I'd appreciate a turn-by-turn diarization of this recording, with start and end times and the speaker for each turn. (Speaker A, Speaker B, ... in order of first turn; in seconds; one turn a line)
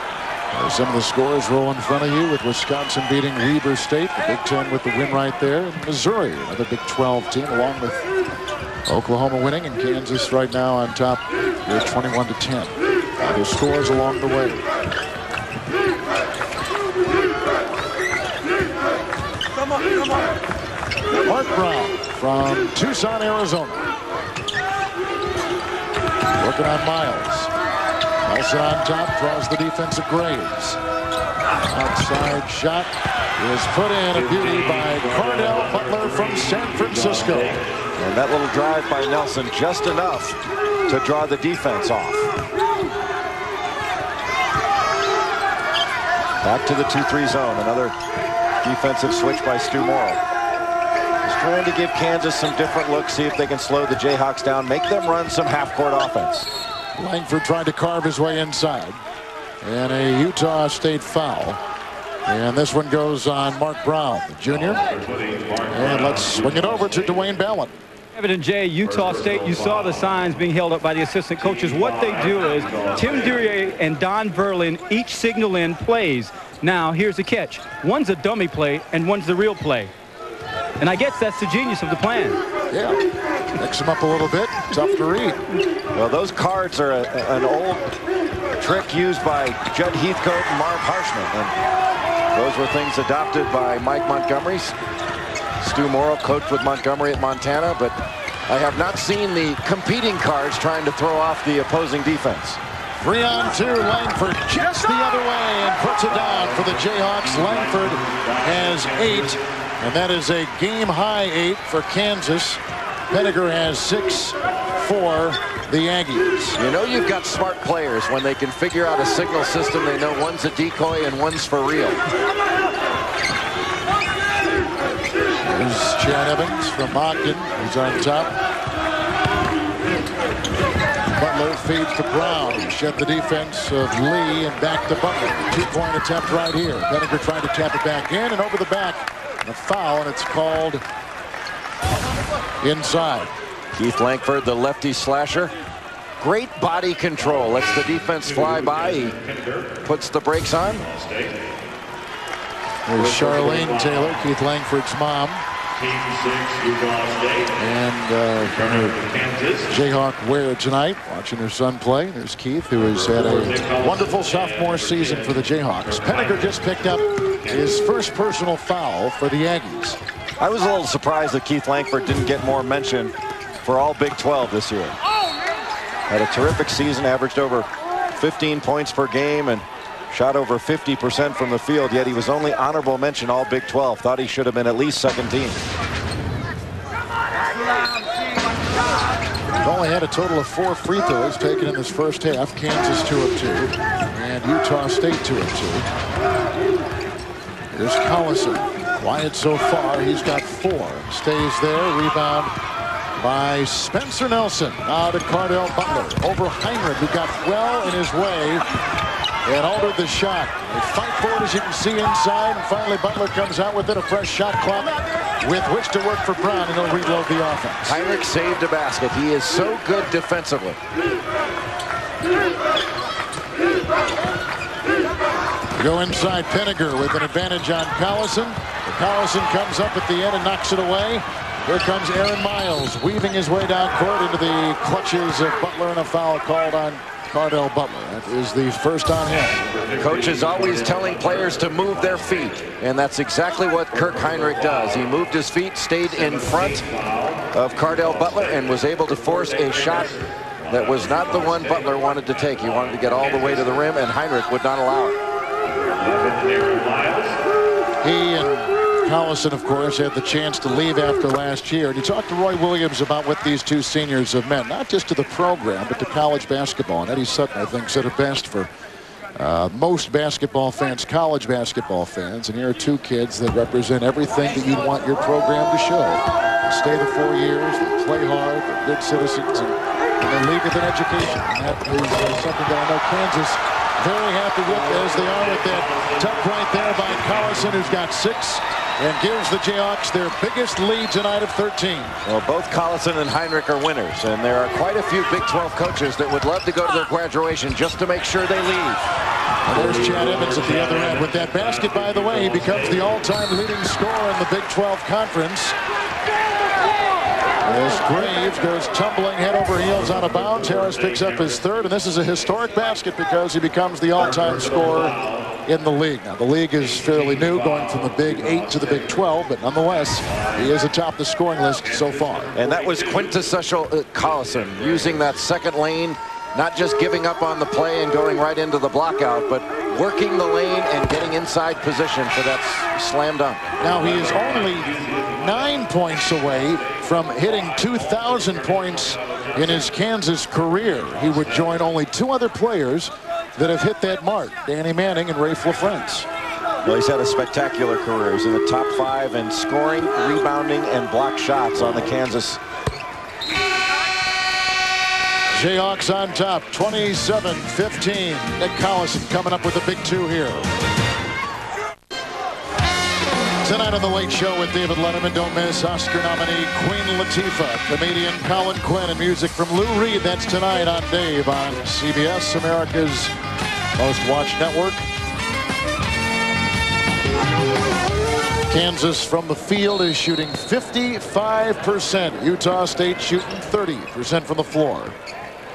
Speaker A: 0.5-8.0
Speaker A: 8.9-14.6
Speaker A: 21.2-23.9
Speaker A: 26.4-27.5
Speaker A: 28.2-30.8
Speaker A: 31.7-37.6
Speaker B: 38.0-42.3
Speaker B: 46.4-47.9
Speaker B: 48.6-50.2
Speaker B: 51.2-56.5
Speaker A: 57.0-59.0
Speaker A: 59.6-61.6
Speaker A: 62.2-65.0
Speaker A: 65.6-67.8
Speaker C: 68.1-79.9
Speaker C: 80.8-82.4
Speaker A: 82.7-83.0
Speaker A: 83.5-85.4
Speaker B: 85.9-87.9
Speaker B: 88.6-91.5
Speaker B: 92.3-94.7
Speaker B: 95.6-98.0
Speaker B: 98.5-102.6
Speaker A: 103.0-116.6
Speaker B: 116.6-122.0
Speaker A: 125.4-128.3
Speaker A: 131.2-140.8
Speaker A: 142.6-143.3
Speaker B: 143.7-145.5
Speaker B: 146.2-149.3
Speaker B: 149.8-150.9
Speaker A: 152.8-155.4
Speaker A: 157.5-159.1
Speaker A: 159.7-170.0
Speaker B: 170.4-173.1
Speaker B: 173.6-174.9
Speaker B: 176.1-185.6
Speaker A: 189.6-195.9
Speaker A: 197.7-202.5
Speaker A: 203.2-208.6
Speaker A: 209.4-218.0
Speaker B: 217.8-220.8
Speaker A: 225.8-239.7
Speaker B: 240.0-246.9
Speaker B: 247.5-255.2
Speaker A: 258.0-268.7
Speaker A: 269.4-292.1
Speaker B: 292.2-299.1
Speaker A: 299.6-305.8
Speaker A: 307.6-322.6
Speaker B: 322.5-333.7
Speaker A: 333.8-346.3
Speaker B: 346.8-352.6
Speaker A: 355.5-360.7
Speaker A: 363.6-373.3
Speaker A: 373.9-375.0
Speaker A: 378.7-385.1